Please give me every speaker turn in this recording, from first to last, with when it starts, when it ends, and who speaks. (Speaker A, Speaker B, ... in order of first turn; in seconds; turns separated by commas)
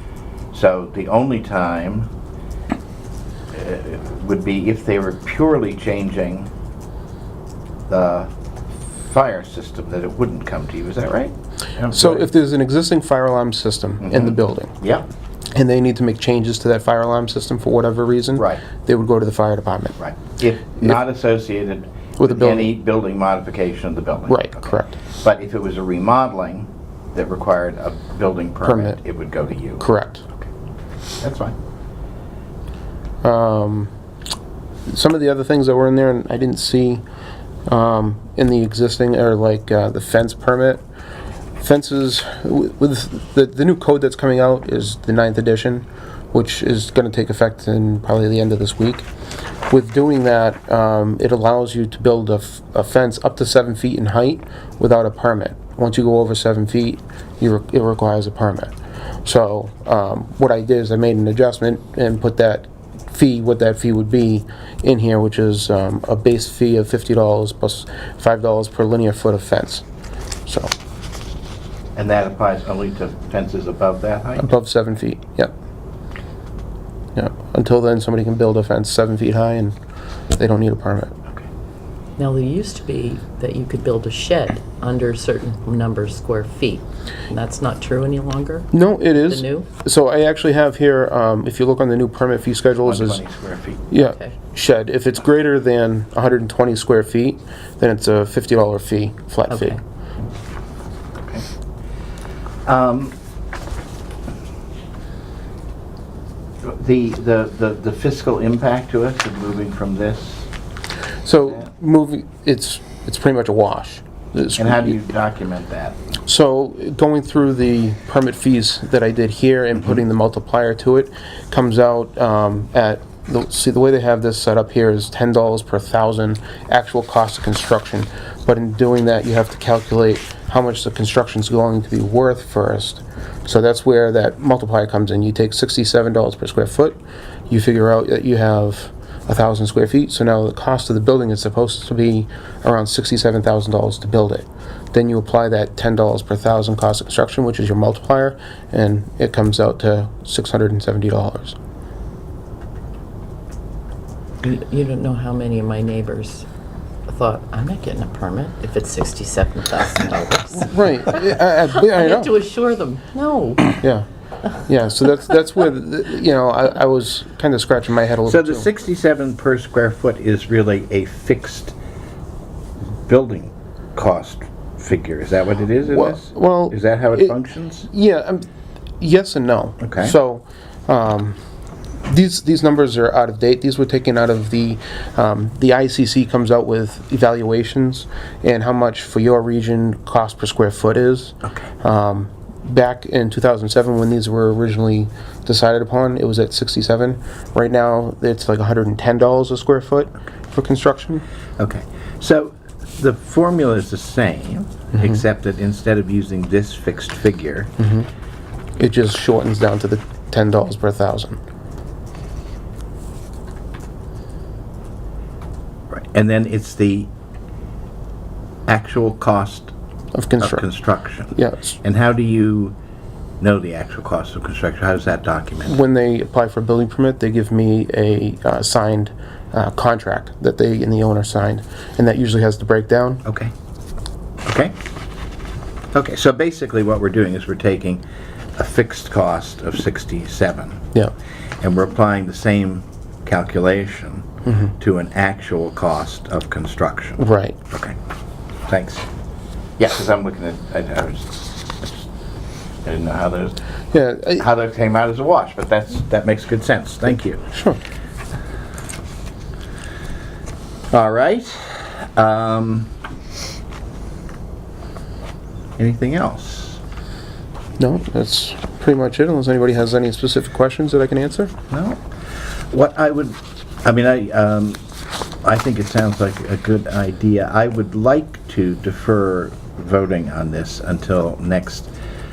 Speaker A: 0.5-2.1, Speaker A: 3.5-6.5, Speaker A: 7.9-8.3, Speaker A: 9.0-12.3, Speaker B: 11.9-14.7, Speaker A: 14.0-15.1, Speaker B: 15.5-20.0, Speaker A: 18.4-18.7, Speaker A: 20.0-29.8, Speaker B: 22.2-22.7, Speaker B: 24.3-25.0, Speaker B: 28.6-29.0, Speaker B: 29.8-30.2, Speaker A: 31.2-31.6, Speaker B: 33.2-33.9, Speaker B: 34.9-37.0, Speaker B: 37.7-40.8, Speaker B: 41.6-49.1, Speaker B: 49.7-58.7, Speaker B: 59.2-69.8, Speaker B: 70.5-70.7, Speaker A: 72.0-74.6, Speaker B: 74.4-75.5, Speaker B: 77.2-79.8, Speaker B: 80.3-81.2, Speaker C: 82.2-89.7, Speaker B: 88.7-93.2, Speaker A: 92.8-93.9, Speaker B: 93.9-99.8, Speaker C: 93.9-94.3, Speaker C: 99.5-99.8, Speaker A: 102.7-103.2, Speaker A: 106.6-110.5, Speaker B: 111.2-115.0, Speaker A: 114.6-116.1, Speaker B: 116.3-151.6, Speaker C: 154.4-156.5, Speaker C: 157.1-163.8, Speaker B: 160.6-162.3, Speaker B: 163.8-164.1, Speaker B: 164.6-168.7, Speaker A: 168.3-171.8, Speaker A: 173.1-177.9, Speaker B: 175.9-177.4, Speaker B: 177.9-178.5, Speaker B: 179.0-181.4, Speaker A: 179.8-180.2, Speaker B: 182.1-201.2, Speaker A: 201.6-207.7, Speaker B: 204.9-205.2, Speaker B: 207.8-208.1, Speaker B: 208.8-211.4, Speaker A: 215.9-217.1, Speaker A: 218.7-219.7, Speaker B: 220.2-220.7, Speaker A: 220.4-222.8, Speaker B: 221.3-221.8, Speaker A: 223.4-225.8, Speaker B: 225.7-233.2, Speaker A: 233.2-233.5, Speaker A: 234.4-234.8, Speaker A: 235.9-238.0, Speaker A: 238.6-240.9, Speaker A: 241.6-248.0, Speaker B: 244.5-244.7, Speaker B: 247.2-247.6, Speaker A: 248.7-249.1, Speaker A: 249.8-252.1, Speaker A: 252.8-253.6, Speaker B: 253.9-254.4, Speaker A: 254.4-257.4, Speaker B: 257.5-257.8, Speaker A: 260.9-262.9, Speaker A: 265.8-266.8, Speaker B: 267.8-271.5, Speaker A: 271.7-272.0, Speaker A: 272.7-274.8, Speaker A: 275.4-281.9